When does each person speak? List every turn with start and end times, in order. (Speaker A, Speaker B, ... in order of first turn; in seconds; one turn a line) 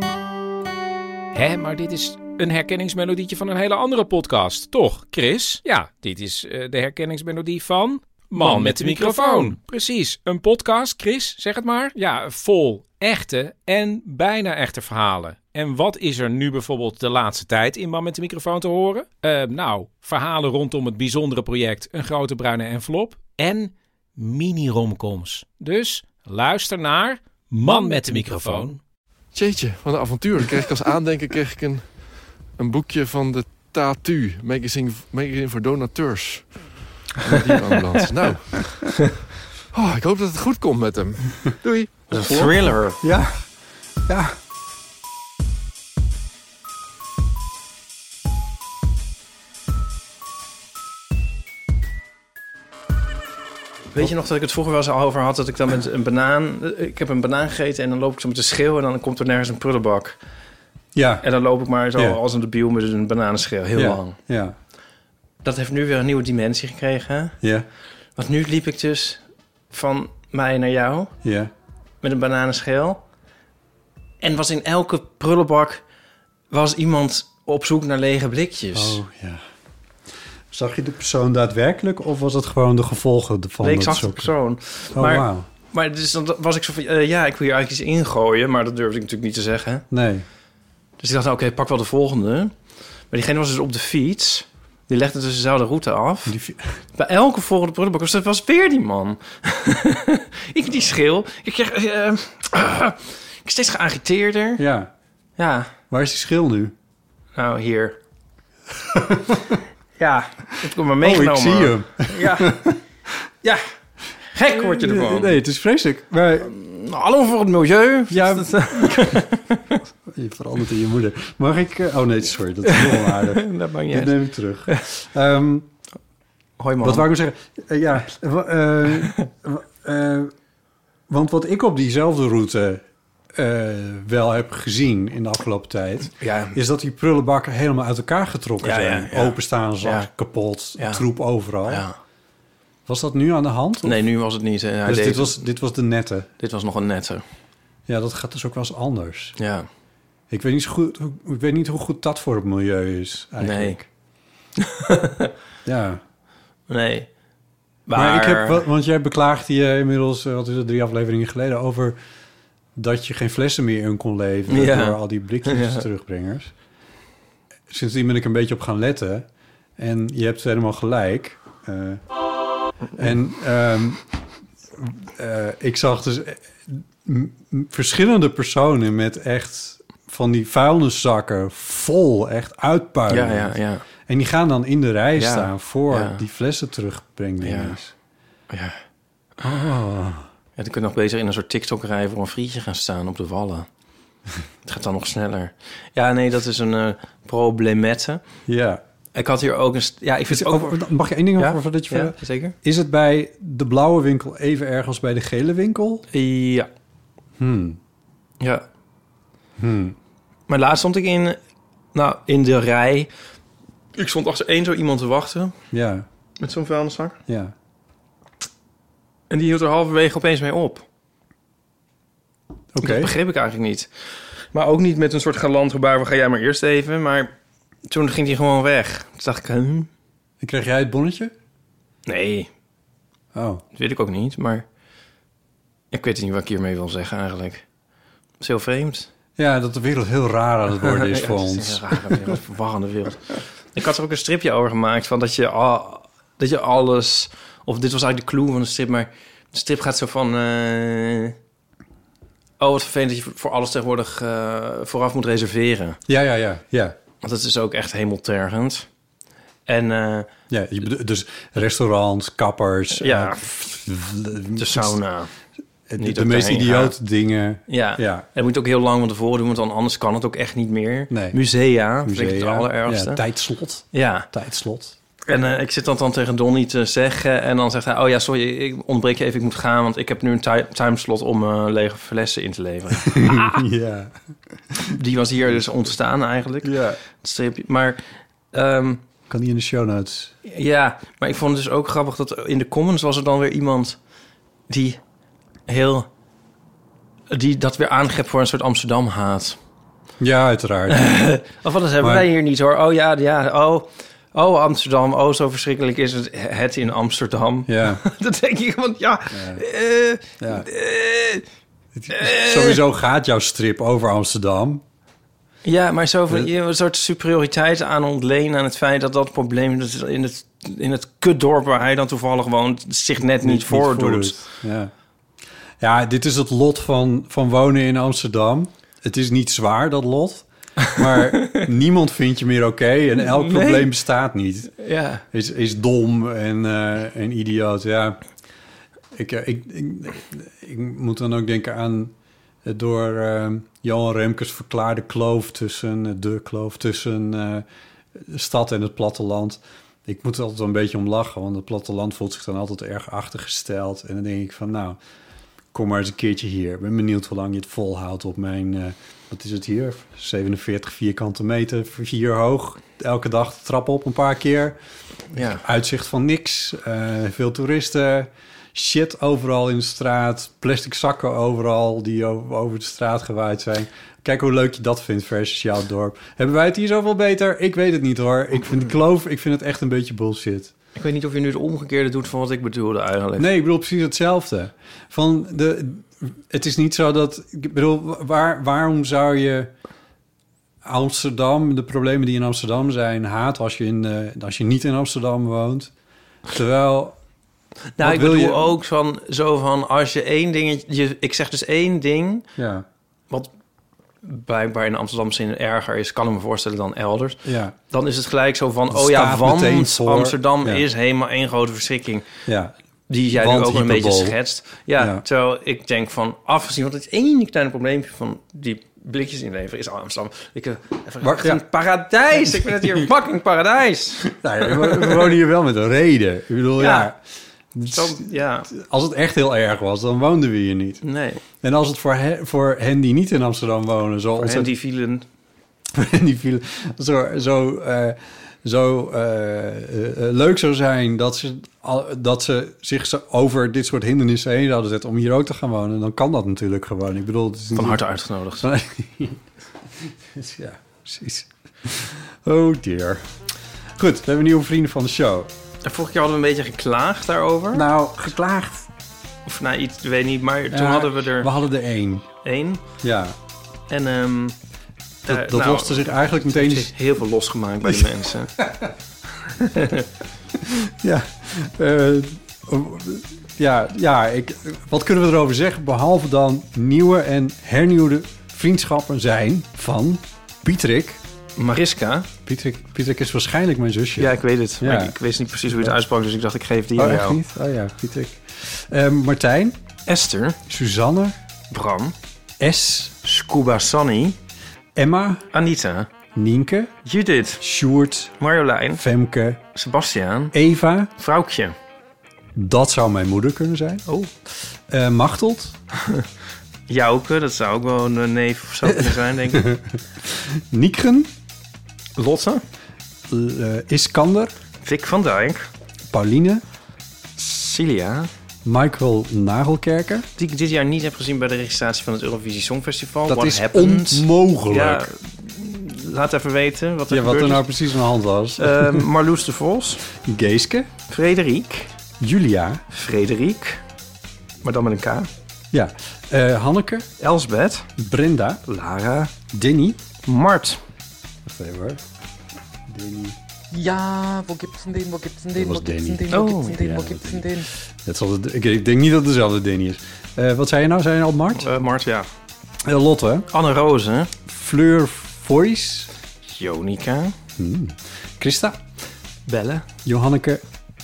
Speaker A: 1.3-28.8
Speaker B: 8.4-9.0
Speaker C: 29.3-39.1
Speaker C: 39.7-42.5
Speaker B: 42.1-43.0
Speaker D: 42.1-42.4
Speaker D: 43.0-43.5
Speaker D: 44.1-44.3
Speaker B: 53.9-60.2
Speaker D: 60.9-61.2
Speaker B: 61.2-64.2
Speaker D: 63.7-64.5
Speaker B: 65.4-67.4
Speaker D: 67.4-67.7
Speaker B: 68.2-71.1
Speaker D: 71.2-71.5
Speaker B: 72.0-73.0
Speaker B: 74.2-75.8
Speaker B: 76.5-79.0
Speaker D: 78.7-79.4
Speaker D: 80.5-84.3
Speaker B: 83.6-89.8
Speaker D: 84.9-85.5
Speaker D: 89.9-90.2
Speaker B: 91.0-92.5
Speaker B: 93.1-96.4
Speaker D: 96.2-96.7
Speaker B: 97.0-104.6
Speaker D: 104.6-104.9
Speaker B: 105.4-105.7
Speaker D: 105.9-106.7
Speaker B: 107.3-108.0
Speaker D: 108.7-109.6
Speaker B: 110.0-112.6
Speaker D: 111.0-112.8
Speaker B: 114.3-115.4
Speaker D: 114.5-116.5
Speaker B: 116.4-119.8
Speaker D: 118.1-119.2
Speaker D: 120.0-125.7
Speaker B: 122.7-124.8
Speaker B: 126.6-127.1
Speaker D: 126.8-130.3
Speaker D: 131.1-141.8
Speaker B: 136.2-136.6
Speaker B: 138.6-140.1
Speaker B: 140.8-141.0
Speaker B: 141.6-142.0
Speaker D: 142.8-144.0
Speaker B: 143.8-145.4
Speaker D: 144.8-146.3
Speaker B: 146.4-147.2
Speaker D: 147.9-149.4
Speaker B: 149.4-149.7
Speaker D: 150.3-153.9
Speaker B: 153.4-153.8
Speaker B: 154.6-155.3
Speaker D: 155.6-156.0
Speaker B: 156.7-157.1
Speaker B: 157.9-158.6
Speaker D: 157.9-162.0
Speaker D: 162.7-166.5
Speaker B: 164.5-165.8
Speaker D: 167.7-169.3
Speaker D: 169.8-172.0
Speaker D: 173.0-174.0
Speaker D: 174.8-187.9
Speaker B: 183.1-183.8
Speaker B: 185.2-186.2
Speaker B: 187.4-187.8
Speaker B: 188.5-188.8
Speaker D: 189.4-190.2
Speaker B: 190.6-193.7
Speaker B: 194.6-198.2
Speaker D: 198.5-198.8
Speaker B: 199.1-200.8
Speaker D: 200.3-206.1
Speaker B: 201.4-202.5
Speaker B: 206.1-206.7
Speaker D: 207.4-207.8
Speaker D: 209.6-210.0
Speaker B: 210.5-211.4
Speaker B: 211.9-213.1
Speaker B: 213.9-215.5
Speaker D: 215.7-216.1
Speaker B: 216.4-217.2
Speaker D: 217.3-217.5
Speaker B: 219.3-220.8
Speaker D: 222.7-223.1
Speaker B: 222.8-223.9
Speaker B: 224.5-227.3
Speaker B: 227.9-229.9
Speaker D: 230.4-231.3
Speaker B: 232.1-232.5
Speaker D: 233.3-233.6
Speaker B: 233.7-234.6
Speaker B: 235.9-237.6
Speaker B: 238.4-239.1
Speaker D: 239.4-242.4
Speaker B: 240.8-251.3
Speaker B: 252.6-256.0
Speaker D: 256.1-257.0
Speaker B: 257.2-258.9
Speaker B: 259.7-260.3
Speaker D: 260.5-265.0
Speaker B: 262.9-263.4
Speaker B: 264.6-265.3
Speaker D: 265.9-268.2
Speaker B: 266.0-266.9
Speaker B: 267.7-273.2
Speaker D: 271.1-271.4
Speaker D: 272.0-274.9
Speaker B: 273.9-274.3
Speaker B: 275.3-283.6
Speaker D: 283.0-284.1
Speaker D: 284.7-285.9
Speaker B: 284.8-288.0
Speaker D: 286.6-287.0
Speaker B: 288.5-289.0
Speaker D: 289.3-290.3
Speaker B: 290.4-294.0
Speaker B: 294.7-295.0
Speaker B: 295.7-296.1
Speaker B: 297.3-299.6
Speaker D: 300.2-301.1
Speaker B: 300.9-311.4
Speaker D: 302.0-302.3
Speaker D: 307.7-308.0
Speaker D: 309.3-309.6
Speaker D: 310.4-310.7
Speaker D: 311.9-314.8
Speaker B: 312.1-312.8
Speaker B: 315.6-324.4
Speaker D: 323.2-324.9
Speaker D: 325.8-334.7
Speaker B: 331.3-331.7
Speaker B: 333.2-333.9
Speaker B: 334.8-335.2
Speaker D: 335.3-338.2
Speaker D: 339.1-342.1
Speaker D: 342.6-355.0
Speaker D: 355.7-364.8
Speaker B: 365.3-365.6
Speaker D: 365.3-380.7
Speaker B: 380.9-383.5
Speaker D: 383.4-389.7
Speaker D: 390.8-395.9
Speaker D: 396.5-397.2
Speaker B: 397.9-402.4
Speaker D: 398.0-398.8
Speaker D: 402.6-402.9
Speaker B: 404.2-412.3
Speaker D: 407.4-407.7
Speaker D: 408.9-410.8
Speaker D: 412.5-412.7
Speaker B: 413.1-425.3
Speaker D: 413.3-414.4
Speaker D: 414.9-415.2
Speaker D: 421.2-421.6
Speaker D: 424.2-427.2
Speaker B: 426.8-427.1
Speaker D: 427.7-431.0
Speaker B: 427.9-428.7
Speaker B: 431.0-431.4
Speaker D: 431.5-434.7
Speaker B: 434.4-435.2
Speaker D: 435.9-448.0
Speaker B: 447.7-448.7
Speaker D: 448.6-449.4
Speaker D: 450.0-453.3
Speaker D: 453.9-455.5
Speaker B: 455.8-457.9
Speaker D: 457.7-458.9
Speaker B: 459.4-461.5
Speaker D: 460.7-462.3
Speaker B: 462.4-462.8
Speaker D: 463.0-463.4
Speaker B: 463.9-464.6
Speaker B: 465.2-468.5
Speaker D: 465.3-466.9
Speaker D: 467.8-468.9
Speaker B: 469.4-470.1
Speaker D: 470.8-481.2
Speaker B: 481.6-482.3
Speaker D: 482.4-485.1
Speaker B: 484.2-487.4
Speaker D: 485.7-486.0
Speaker D: 486.9-489.8
Speaker B: 490.1-490.6
Speaker D: 490.7-491.4
Speaker B: 491.7-492.1
Speaker D: 492.6-493.1
Speaker B: 493.2-494.4
Speaker D: 494.9-495.4
Speaker B: 495.5-496.1
Speaker D: 496.3-496.9
Speaker B: 497.0-497.6
Speaker D: 497.6-498.3
Speaker B: 498.4-499.0
Speaker D: 498.9-499.6
Speaker B: 499.7-500.5
Speaker D: 500.5-501.1
Speaker B: 501.2-501.7
Speaker D: 502.5-504.0
Speaker B: 504.1-504.3
Speaker D: 504.9-505.8
Speaker B: 506.9-509.7
Speaker D: 508.9-511.3
Speaker B: 512.2-512.6
Speaker D: 513.3-514.5
Speaker B: 514.8-515.7
Speaker D: 516.1-516.6
Speaker B: 517.4-518.3
Speaker D: 518.6-520.3
Speaker B: 520.4-527.7
Speaker D: 523.3-525.1
Speaker D: 527.1-529.1
Speaker B: 528.6-530.0
Speaker D: 530.1-530.9
Speaker B: 531.1-531.9
Speaker D: 532.2-532.8
Speaker B: 532.9-533.8
Speaker B: 534.6-535.3
Speaker D: 535.7-537.1
Speaker B: 537.2-537.9
Speaker D: 538.0-538.6
Speaker B: 538.6-539.3
Speaker D: 539.5-540.0
Speaker B: 540.2-540.8
Speaker D: 541.4-542.0
Speaker D: 542.9-543.4
Speaker E: 543.7-547.7
Speaker D: 545.5-551.7
Speaker B: 546.3-546.8
Speaker B: 551.6-552.3
Speaker D: 552.8-553.5
Speaker B: 553.5-554.3
Speaker D: 554.5-556.1
Speaker B: 556.4-557.3
Speaker D: 557.6-558.8
Speaker B: 559.5-559.9
Speaker D: 560.0-560.6